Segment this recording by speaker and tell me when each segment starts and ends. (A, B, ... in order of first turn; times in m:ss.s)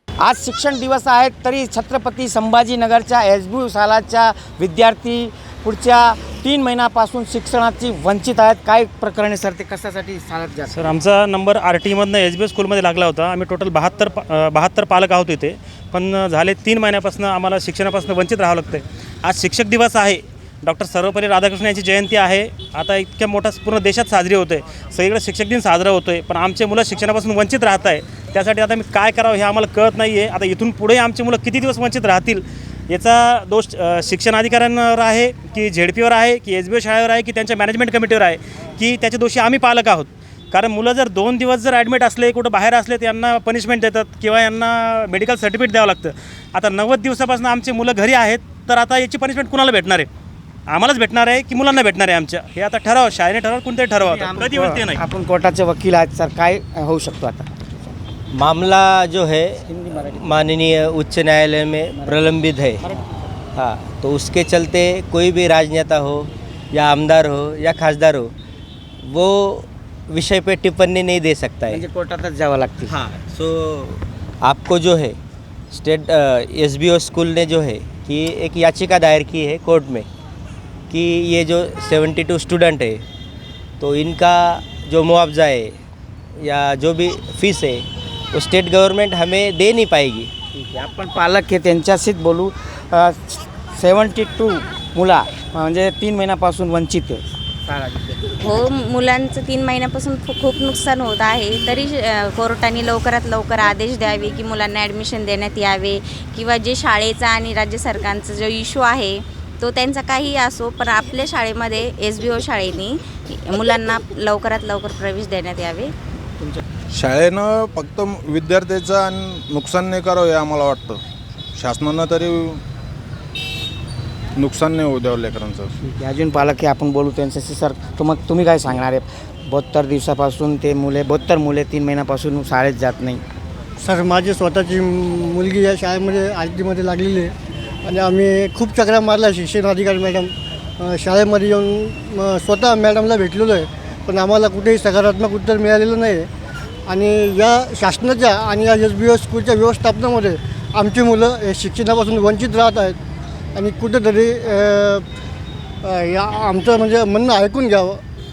0:00.2-0:11.0 A
0:10.7-0:50.1 B
0:50.7-0:55.0 B
0:54.0-0:57.5 A
0:58.3-1:02.8 C
0:59.6-1:00.5 A
1:01.9-1:03.0 A
1:03.6-1:08.3 C
1:09.0-1:11.8 C
1:11.7-1:13.0 A
1:12.9-1:15.2 C
1:15.7-1:20.1 C
1:20.9-1:23.0 C
1:23.8-1:25.8 C
1:26.4-1:30.3 C
1:30.5-1:38.2 A
1:38.4-1:55.9 D
1:56.9-2:01.0 E
2:01.6-2:02.6 E
2:04.4-2:05.7 E
2:05.8-2:13.2 A
2:13.8-2:17.3 F
2:17.8-2:26.3 F
2:26.9-2:33.0 F
2:33.6-2:35.0 F
2:35.8-2:38.0 F